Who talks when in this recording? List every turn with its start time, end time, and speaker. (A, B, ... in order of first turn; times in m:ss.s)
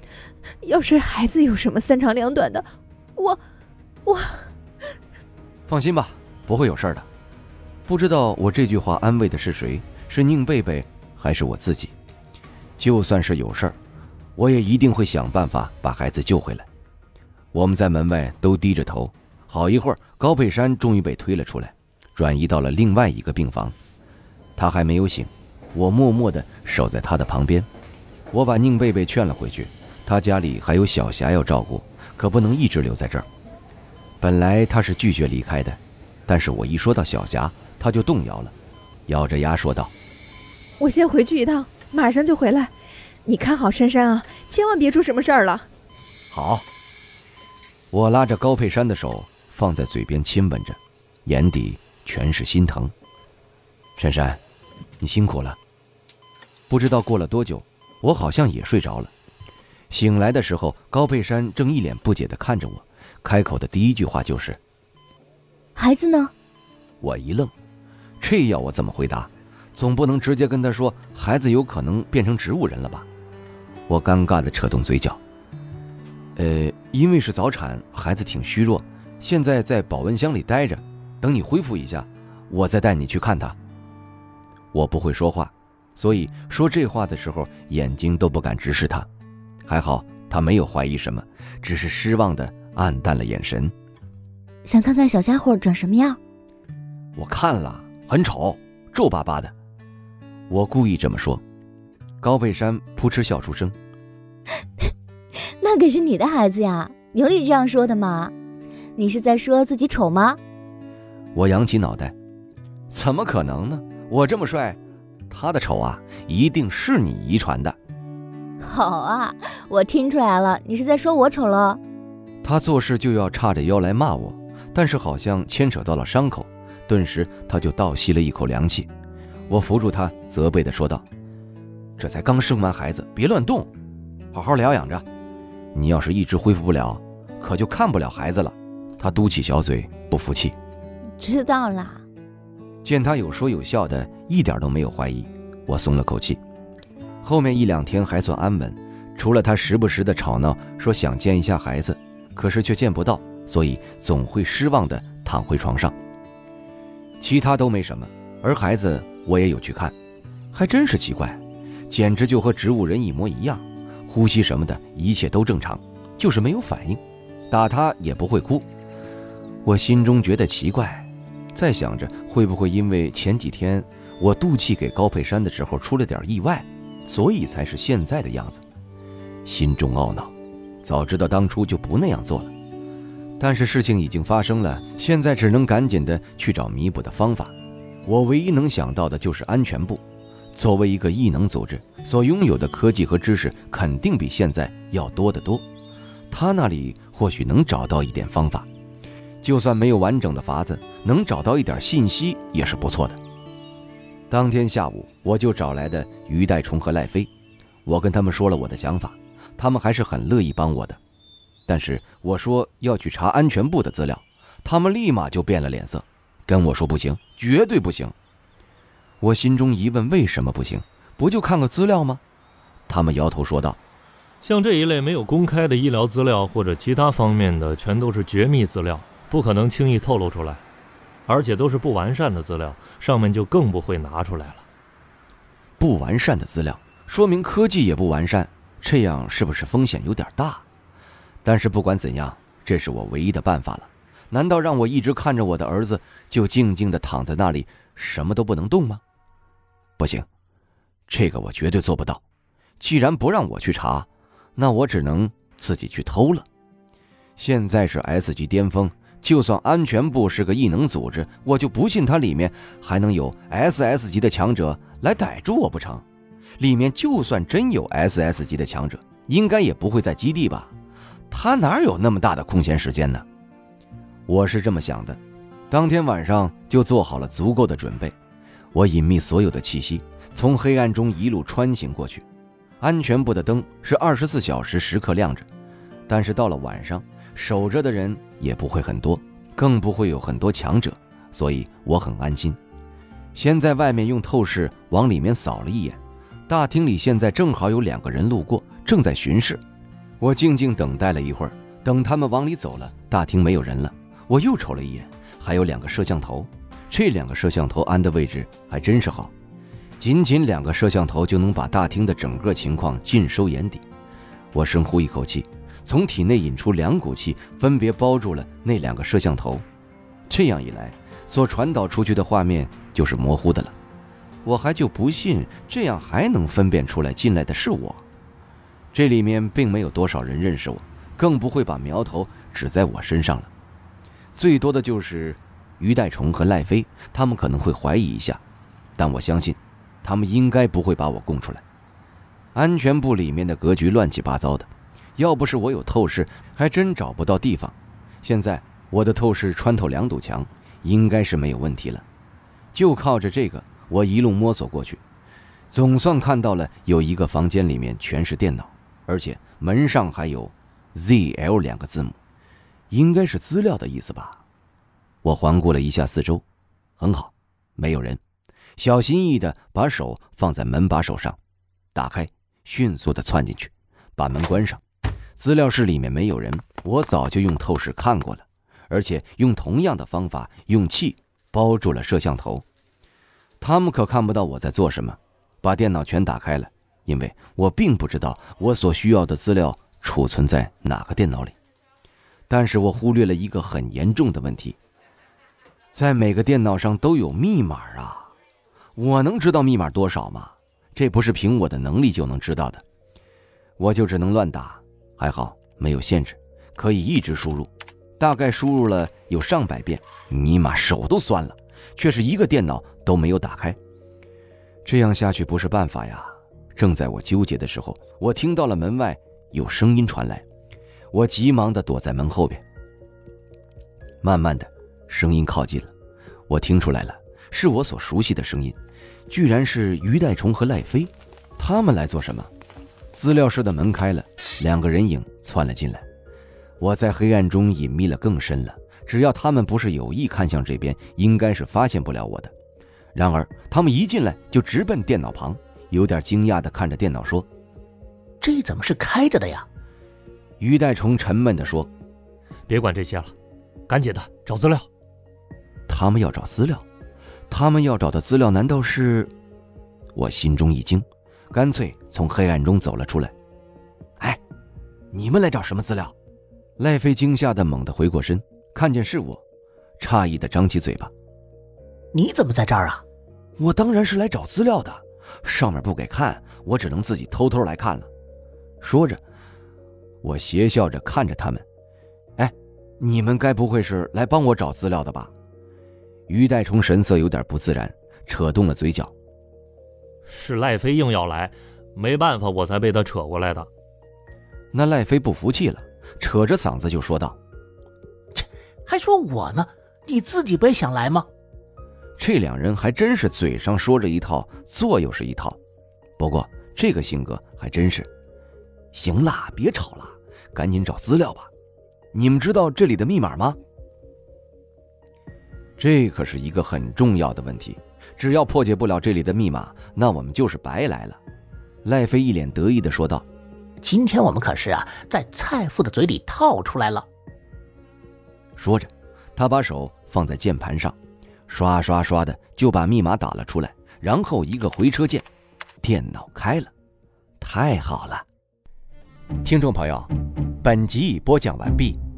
0:00.6-0:03.4 A
0:04.0-0:04.5 A
0:05.7-0:07.1 B
0:07.9-0:11.9 B
0:12.8-0:13.8 B
0:14.4-0:16.7 B
0:17.5-0:23.7 B
0:24.6-0:27.7 B
0:28.3-0:33.3 B
0:34.2-0:38.5 B
0:39.1-0:39.9 B
0:40.8-0:42.7 A
0:43.2-0:45.7 A
0:46.3-0:46.6 B
0:47.9-0:52.9 B
0:54.0-0:54.4 B
0:55.0-0:55.6 B
0:56.7-0:59.1 B
0:59.9-1:04.6 B
1:05.8-1:06.3 C
1:07.0-1:07.5 B
1:08.2-1:13.1 B
1:13.9-1:15.2 B
1:16.4-1:23.6 B
1:24.7-1:29.1 B
1:29.6-1:33.7 B
1:34.6-1:36.2 C
1:37.2-1:39.5 B
1:40.5-1:41.4 B
1:42.2-1:43.8 B
1:45.6-1:48.3 C
1:49.0-1:50.4 C
1:51.3-1:52.1 B
1:52.9-1:54.8 B
1:55.3-1:57.8 B
1:58.6-2:01.8 C
2:02.4-2:08.9 B
2:09.5-2:11.0 B
2:12.0-2:13.7 B
2:14.3-2:15.0 B
2:15.7-2:20.5 B
2:21.2-2:22.0 C
2:22.8-2:26.4 B
2:27.2-2:35.9 B
2:37.2-2:39.9 B
2:40.5-2:48.6 B
2:49.6-2:58.6 B
2:59.4-3:00.3 B
3:00.8-3:02.5 B
3:03.4-3:07.5 B
3:08.0-3:10.0 B
3:10.5-3:15.6 B
3:16.3-3:18.7 B
3:19.4-3:23.2 B
3:24.3-3:27.3 B
3:27.8-3:31.0 B
3:31.7-3:38.1 B
3:39.2-3:42.2 B
3:42.9-3:43.8 B
3:44.4-3:50.6 D
3:51.3-3:54.6 D
3:55.8-4:00.6 B
4:01.4-4:09.0 B
4:10.0-4:10.2 B
4:11.1-4:12.2 B
4:12.8-4:16.4 B
4:17.4-4:26.0 B
4:26.6-4:30.7 B
4:31.3-4:33.2 B
4:34.3-4:38.2 B
4:38.7-4:42.2 B
4:42.8-4:45.4 B
4:46.1-4:52.6 B
4:53.3-4:59.6 B
5:00.2-5:09.3 B
5:10.0-5:13.8 B
5:14.5-5:19.6 B
5:20.3-5:23.7 B
5:24.4-5:28.0 B
5:28.9-5:33.5 B
5:34.3-5:38.4 B
5:39.0-5:41.6 B
5:42.5-5:52.0 B
5:52.7-5:55.0 B
5:55.7-6:02.2 B
6:02.9-6:04.4 B
6:05.2-6:06.4 B
6:07.0-6:08.2 B
6:08.8-6:11.4 B
6:11.9-6:14.8 B
6:15.4-6:22.6 B
6:23.6-6:31.6 B
6:32.5-6:34.8 B
6:35.9-6:38.3 B
6:39.0-6:42.8 B
6:43.8-6:53.8 B
6:54.8-7:00.4 B
7:01.1-7:02.6 B
7:04.2-7:05.9 B
7:06.5-7:08.8 B
7:09.3-7:12.5 B
7:13.1-7:16.0 B
7:16.8-7:22.5 B
7:23.1-7:27.5 B
7:28.4-7:29.7 E
7:30.6-7:31.9 B
7:32.7-7:33.3 D
7:33.9-7:34.9 D
7:35.9-7:36.8 B
7:37.5-7:39.3 B
7:40.1-7:43.3 B
7:45.1-7:46.1 B
7:46.8-7:49.4 B
7:50.0-7:51.1 B
7:52.1-7:53.0 E
7:53.6-7:58.1 B
7:58.8-7:59.2 B
8:00.2-8:01.6 B
8:02.4-8:05.3 B
8:06.3-8:09.1 B
8:10.3-8:13.7 D
8:14.7-8:17.4 B
8:18.3-8:21.3 E
8:22.2-8:25.6 B
8:26.2-8:28.1 B
8:28.9-8:31.5 B
8:32.1-8:33.6 B
8:35.8-8:41.2 B
8:41.8-8:43.2 B
8:43.8-8:47.0 E
8:48.6-8:51.0 B
8:51.5-8:55.2 B
8:55.8-8:56.7 B
8:57.4-8:58.2 B
8:59.4-9:02.0 B